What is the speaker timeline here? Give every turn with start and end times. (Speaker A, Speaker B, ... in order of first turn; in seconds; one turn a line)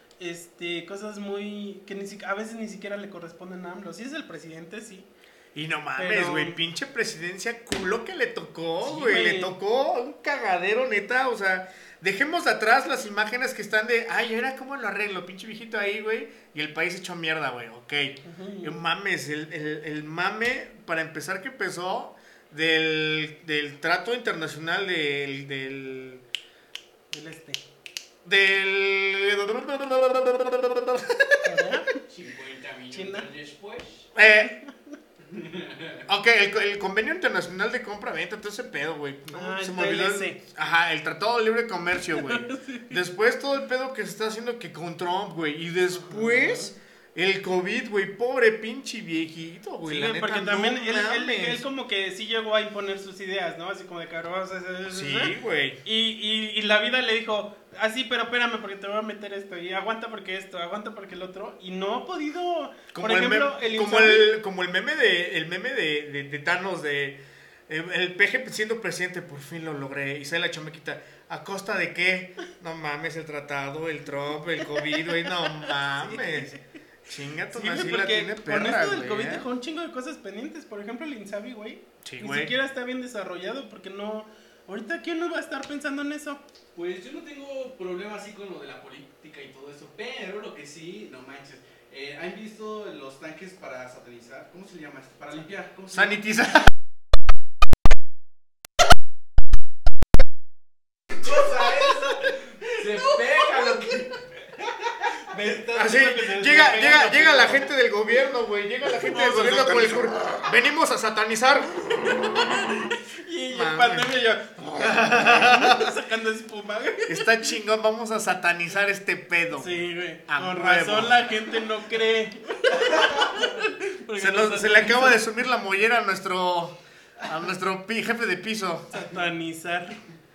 Speaker A: 0.2-5.1
Speaker B: 5.5-26.2
Speaker A: 6.0-6.6
Speaker A: 8.8-9.5
Speaker A: 18.2-18.8
Speaker A: 27.1-27.6
Speaker B: 28.2-31.7
Speaker A: 31.4-32.0
Speaker C: 32.1-34.1
Speaker A: 32.9-33.3
Speaker B: 34.1-34.5
Speaker A: 34.4-34.9
Speaker C: 35.3-36.0
Speaker B: 36.1-51.6
Speaker A: 39.3-40.4
Speaker A: 42.2-43.0
Speaker A: 45.9-46.7
Speaker A: 49.8-64.3
Speaker B: 54.9-55.8
Speaker B: 62.9-76.5
Speaker A: 74.8-76.6
Speaker B: 77.1-79.5
Speaker A: 77.5-86.4
Speaker B: 82.0-82.5
Speaker C: 86.7-96.2
Speaker B: 95.9-96.7
Speaker C: 101.1-105.1
Speaker A: 105.2-107.6
Speaker B: 105.7-112.2
Speaker A: 109.1-110.0
Speaker A: 112.0-117.4
Speaker B: 113.5-114.1
Speaker B: 114.7-115.9
Speaker B: 117.1-121.2
Speaker A: 119.6-125.2
Speaker C: 122.7-123.3
Speaker B: 124.2-129.0
Speaker A: 128.9-130.0